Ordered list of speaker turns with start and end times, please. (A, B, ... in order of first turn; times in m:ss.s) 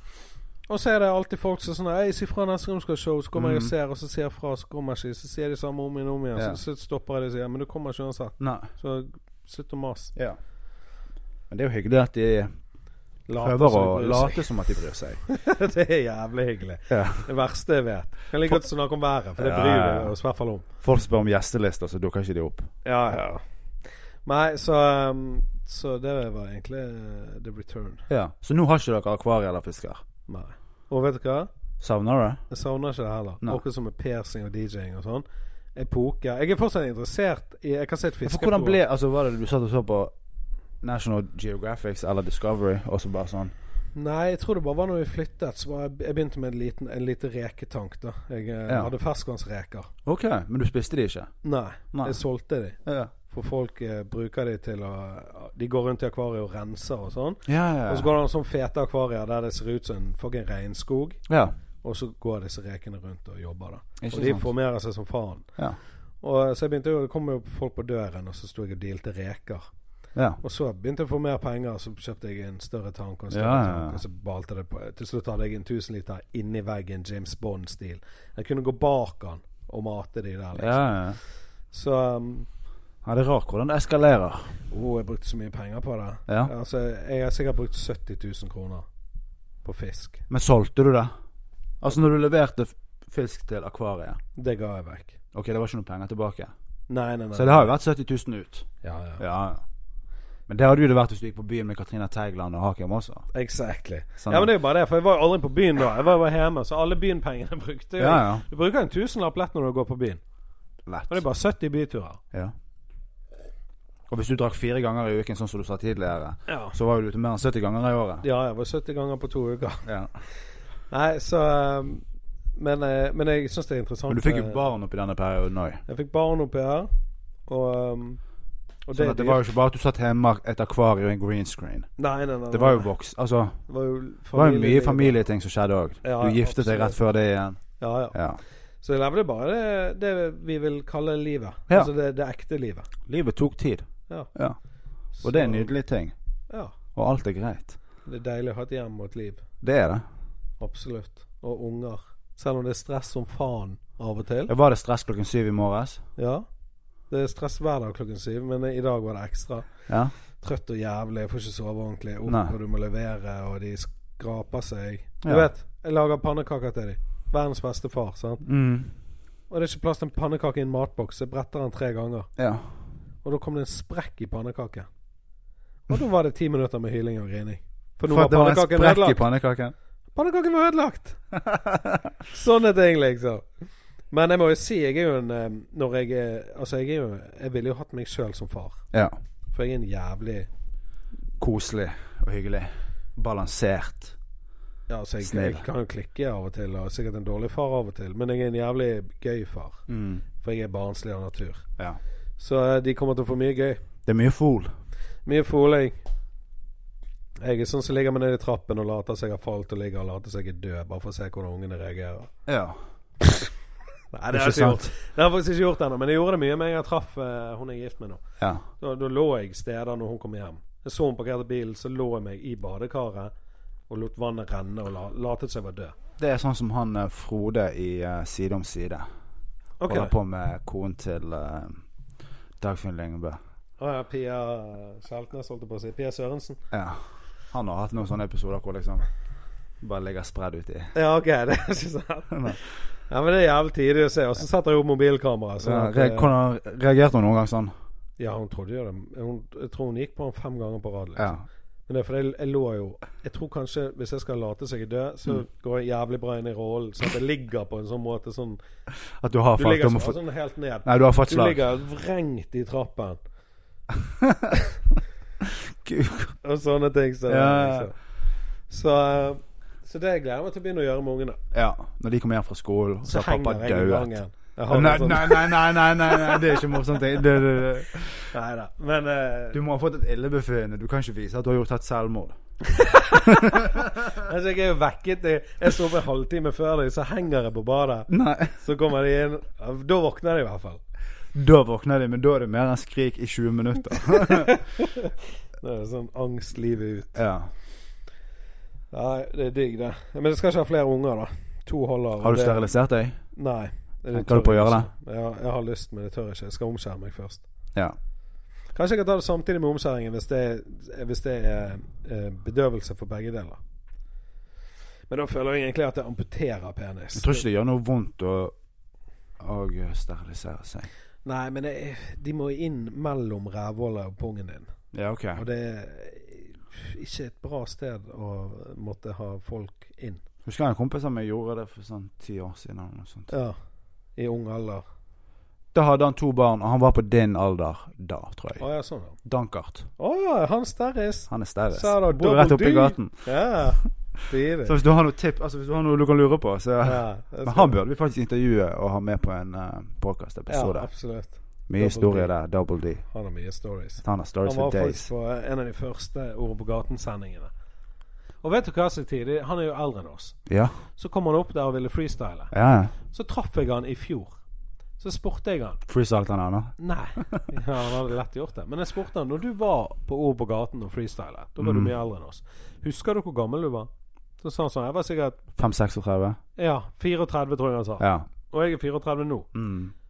0:00.7-0:10.1 A
0:03.3-0:03.7 B
0:08.4-0:08.7 B
0:11.5-0:12.5 B
0:13.3-0:14.4 A
0:13.4-0:15.2 B
0:15.3-0:20.6 A
0:16.9-0:17.3 B
0:19.4-0:20.1 B
0:20.8-0:22.7 B
0:22.8-0:23.4 A
0:24.2-0:28.0 A
0:28.1-0:30.0 B
0:30.3-0:31.5 A
0:31.8-0:32.4 B
0:32.5-0:35.2 A
0:35.8-0:38.8 A
0:38.2-0:40.1 B
0:40.8-0:43.5 B
0:44.0-0:49.9 A
0:50.0-0:51.3 B
0:51.4-1:01.2 A
0:52.8-0:53.1 B
0:57.5-0:58.1 B
1:01.3-1:01.5 B
1:01.8-1:05.5 A
1:04.0-1:04.5 B
1:06.2-1:09.6 A
1:10.1-1:10.4 B
1:10.4-1:20.8 A
1:13.3-1:14.0 B
1:20.6-1:21.2 B
1:21.7-1:22.5 A
1:23.0-1:24.6 B
1:24.7-1:28.8 A
1:29.6-1:30.2 A
1:30.3-1:31.1 B
1:31.8-1:34.2 B
1:34.4-1:35.2 A
1:35.3-1:36.5 B
1:36.9-1:37.7 A
1:37.3-1:38.7 B
1:38.8-1:39.2 A
1:39.2-1:39.6 B
1:40.5-1:43.3 B
1:43.3-1:50.2 A
1:44.2-1:44.5 B
1:48.0-1:48.4 B
1:50.8-1:51.2 B
1:51.1-1:52.2 A
1:54.1-1:58.2 B
1:56.5-1:56.8 A
1:58.2-2:00.3 A
1:59.8-2:00.1 B
2:00.9-2:02.0 A
2:02.6-2:04.6 A
2:04.1-2:05.8 B
2:05.9-2:06.9 A
2:07.5-2:08.2 A
2:08.9-2:09.4 A
2:08.9-2:11.9 B
2:12.0-2:12.9 A
2:12.5-2:13.6 B
2:13.7-2:15.2 A
2:14.3-2:17.6 B
2:16.0-2:17.0 A
2:17.8-2:18.2 A
2:18.1-2:18.4 B
2:18.8-2:22.9 A
2:23.1-2:24.6 B
2:25.2-2:25.7 A
2:25.2-2:26.1 B
2:26.5-2:26.7 A
2:26.9-2:27.8 B
2:28.0-2:29.4 A
2:29.6-2:30.0 B
2:30.6-2:34.5 A
2:34.5-2:36.0 B
2:36.2-2:36.4 A
2:37.1-2:39.7 A
2:40.4-2:48.4 A
2:42.3-2:42.5 B
2:48.4-2:48.9 B
2:49.5-2:52.3 A
2:52.4-2:52.7 B
2:53.2-2:54.9 A
2:55.9-2:59.2 A
2:58.1-2:59.7 B
3:00.1-3:01.2 A
3:01.4-3:02.0 B
3:02.3-3:03.4 A
3:04.1-3:08.8 A
3:09.5-3:10.5 A
3:11.4-3:14.1 B
3:14.9-3:19.8 A
3:15.2-3:15.6 B
3:19.9-3:20.2 B
3:20.4-3:21.6 A
3:22.4-3:23.8 A
3:24.0-3:24.7 B
3:25.2-3:26.0 A
3:27.4-3:32.3 A
3:32.5-3:32.8 B
3:34.1-3:38.2 A
3:34.3-3:34.9 B
3:38.8-3:43.3 A
3:43.9-3:45.9 A
3:46.2-3:49.0 B
3:49.8-3:50.1 A
3:49.9-3:51.8 B
3:52.6-3:53.4 B
3:53.8-3:56.6 A
3:56.7-3:57.0 B
3:57.5-3:59.0 B
3:59.8-4:00.9 B
4:00.9-4:06.3 A
4:02.3-4:02.6 B
4:05.6-4:07.7 B
4:08.2-4:11.3 A
4:11.2-4:11.4 B
4:11.9-4:18.6 A
4:19.2-4:20.2 B
4:19.6-4:23.2 A
4:20.8-4:21.6 B
4:24.2-4:24.5 B
4:25.4-4:26.3 B
4:26.4-4:28.0 A
4:27.3-4:27.9 B
4:28.7-4:31.4 A
4:31.5-4:34.1 B
4:33.0-4:36.6 A
4:34.7-4:38.3 B
4:38.3-4:39.6 A
4:39.5-4:42.4 B
4:42.6-4:50.8 A
4:43.2-4:43.9 B
4:48.1-4:48.6 B
4:51.3-4:54.5 B
4:54.3-4:57.1 A
4:57.1-4:57.5 B
4:58.9-5:02.7 A
5:02.2-5:03.2 B
5:03.3-5:07.4 A
5:04.1-5:04.9 B
5:08.7-5:13.6 A
5:15.1-5:17.4 A
5:17.2-5:18.5 B
5:19.4-5:20.9 B
5:21.2-5:24.7 A
5:24.9-5:25.4 B
5:25.3-5:30.2 A
5:30.4-5:33.3 B
5:33.3-5:33.6 A
5:34.2-5:34.8 A
5:35.7-5:38.6 B
5:38.6-5:39.2 A
5:39.2-5:39.9 B
5:40.0-5:44.8 A
5:41.3-5:43.2 B
5:44.6-5:50.9 B
5:46.8-5:47.8 A
5:50.5-5:52.3 A
5:51.7-5:53.0 B
5:53.1-5:57.5 A
5:54.0-5:55.1 B
5:58.4-6:02.5 A
6:00.5-6:00.7 B
6:02.5-6:02.9 B
6:03.1-6:04.4 A
6:05.0-6:05.8 A
6:05.8-6:07.5 B
6:06.8-6:13.9 A
6:11.6-6:11.9 B
6:14.4-6:15.4 A
6:15.6-6:16.4 B
6:16.6-6:19.5 A
6:18.0-6:18.3 B
6:19.5-6:19.9 B